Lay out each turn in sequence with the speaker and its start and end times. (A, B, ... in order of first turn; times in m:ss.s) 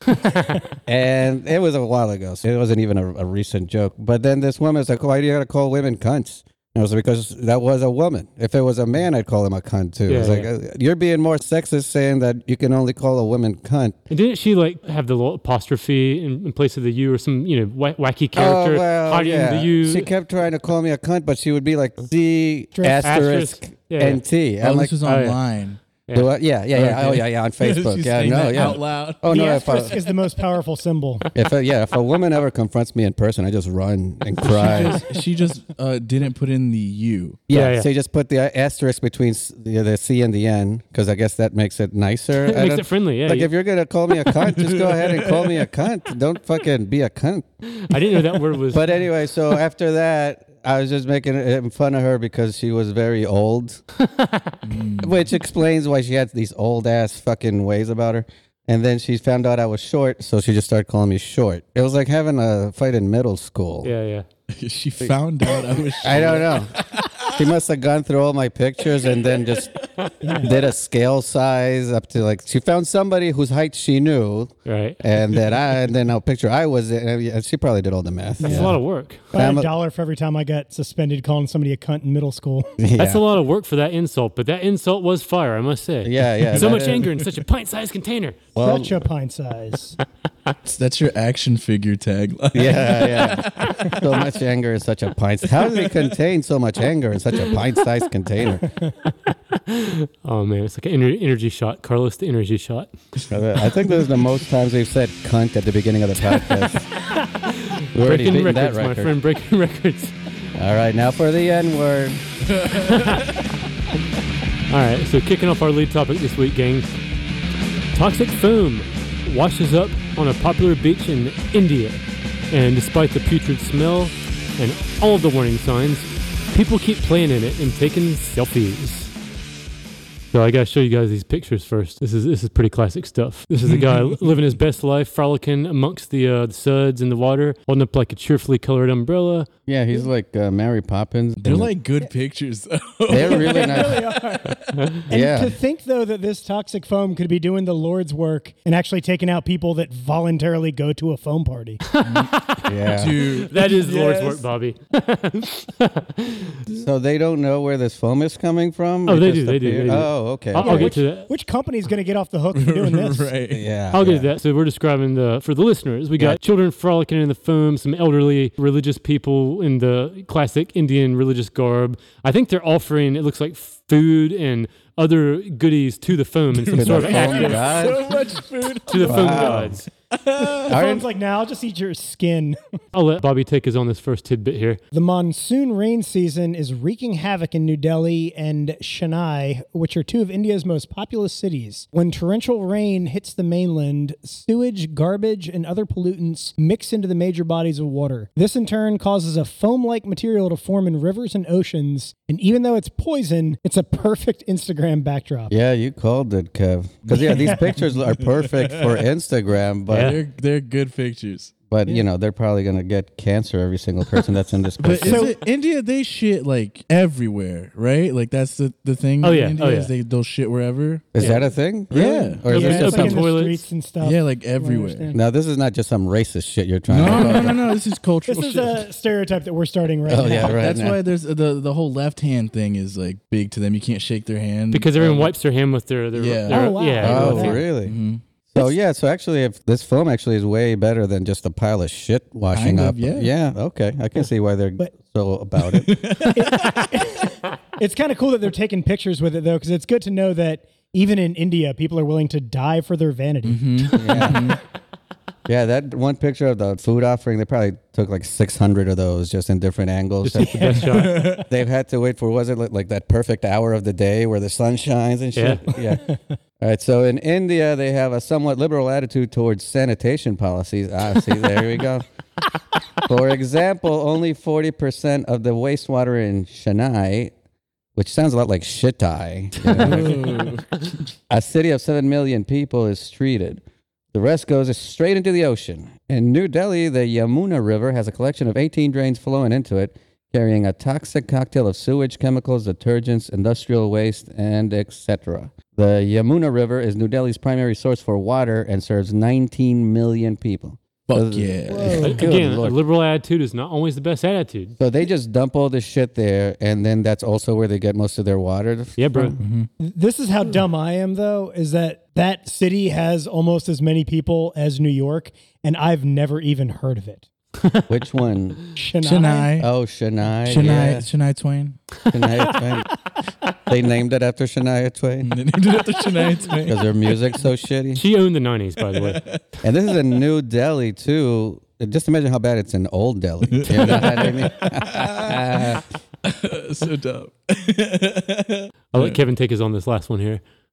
0:00.2-0:00.6 A
0:00.8-0:14.0 B
0:10.1-0:10.5 A
0:14.1-0:20.1 A
0:18.3-0:24.9 B
0:22.7-0:23.0 C
0:23.0-0:24.2 A
0:24.6-0:25.8 D
0:25.0-0:25.4 A
0:26.1-0:26.3 A
0:26.1-0:30.0 B
0:26.7-0:30.1 D
0:29.3-0:31.3 C
0:31.3-0:35.0 B
0:34.4-0:37.4 D
0:37.5-0:47.4 B
0:37.5-0:37.9 A
0:42.4-0:43.5 A
0:44.4-0:45.6 D
0:47.7-0:48.9 A
0:48.7-0:53.8 B
0:54.0-0:54.6 A
0:54.6-0:55.1 D
0:55.0-1:03.9 B
1:03.8-1:04.2 A
1:04.5-1:07.4 D
1:06.0-1:06.7 B
1:07.3-1:18.8 B
1:09.1-1:09.3 D
1:10.2-1:10.5 C
1:14.7-1:15.0 A
1:18.4-1:18.7 C
1:18.4-1:19.3 A
1:19.3-1:19.7 B
1:19.3-1:22.7 C
1:22.8-1:23.2 B
1:23.0-1:28.4 A
1:26.0-1:27.1 B
1:26.5-1:27.2 D
1:28.5-1:29.0 B
1:28.6-1:30.0 C
1:30.6-1:34.2 D
1:32.5-1:38.7 B
1:35.5-1:36.0 D
1:39.7-1:42.9 A
1:43.3-1:46.9 B
1:47.1-1:50.2 A
1:47.9-1:49.1 B
1:50.5-1:52.2 B
1:52.5-1:53.4 D
1:52.8-1:53.2 A
1:54.7-1:56.9 A
1:57.9-2:09.1 A
2:10.3-2:19.5 A
2:13.6-2:14.3 D
2:19.7-2:21.7 B
2:21.4-2:24.8 D
2:23.1-2:24.0 B
2:23.1-2:31.8 C
2:24.7-2:25.0 A
2:25.1-2:25.6 B
2:31.9-2:36.8 A
2:32.0-2:34.4 D
2:32.6-2:33.2 B
2:36.7-2:40.9 B
2:39.1-2:41.3 A
2:40.6-2:43.3 C
2:42.5-2:43.6 D
2:43.5-2:44.3 B
2:43.9-2:58.1 A
2:56.5-3:00.8 D
2:56.7-2:58.1 B
2:58.9-2:59.8 A
2:59.0-2:59.8 B
3:00.4-3:02.6 C
3:00.7-3:01.0 B
3:02.9-3:04.8 A
3:04.9-3:25.5 C
3:25.5-3:30.2 B
3:27.1-3:29.0 D
3:29.9-3:30.2 A
3:29.9-3:31.5 D
3:31.7-3:35.3 B
3:34.8-3:41.1 D
3:35.0-3:35.4 C
3:39.2-3:39.9 A
3:41.1-3:43.2 B
3:41.2-3:41.5 A
3:41.9-3:42.4 D
3:42.4-3:43.6 A
3:42.5-3:45.2 C
3:44.0-3:45.1 D
3:45.1-3:47.6 B
3:46.9-3:48.8 D
3:48.3-3:50.6 C
3:50.1-3:51.0 B
3:50.3-3:55.3 D
3:54.7-3:57.6 A
3:56.2-3:58.2 D
3:56.5-3:57.6 C
3:57.0-3:58.0 B
3:58.5-4:06.0 B
4:02.5-4:03.3 D
4:05.7-4:06.9 D
4:06.3-4:13.9 C
4:13.4-4:14.6 D
4:13.9-4:14.5 B
4:15.5-4:32.0 B
4:20.2-4:21.4 A
4:20.8-4:21.5 D
4:25.4-4:25.6 A
4:33.0-4:37.3 B
4:38.0-4:40.4 B
4:39.6-4:40.7 D
4:41.3-4:43.6 B
4:44.1-5:02.8 B
5:01.1-5:02.0 D
5:01.7-5:02.2 C
5:02.0-5:04.8 A
5:04.8-5:09.4 B
5:09.0-5:09.4 A
5:09.4-5:09.7 D
5:09.8-5:17.2 C
5:17.6-5:17.8 A
5:17.9-5:18.6 B
5:18.8-5:19.5 C
5:19.0-5:19.7 D
5:19.6-5:21.1 B
5:20.4-5:21.8 D
5:22.1-5:22.9 B
5:23.7-5:25.4 B
5:25.2-5:26.9 D
5:26.6-5:28.0 B
5:28.0-5:29.2 A
5:28.9-5:29.4 D
5:29.6-5:35.8 B
5:33.5-5:39.2 D
5:38.9-5:40.4 A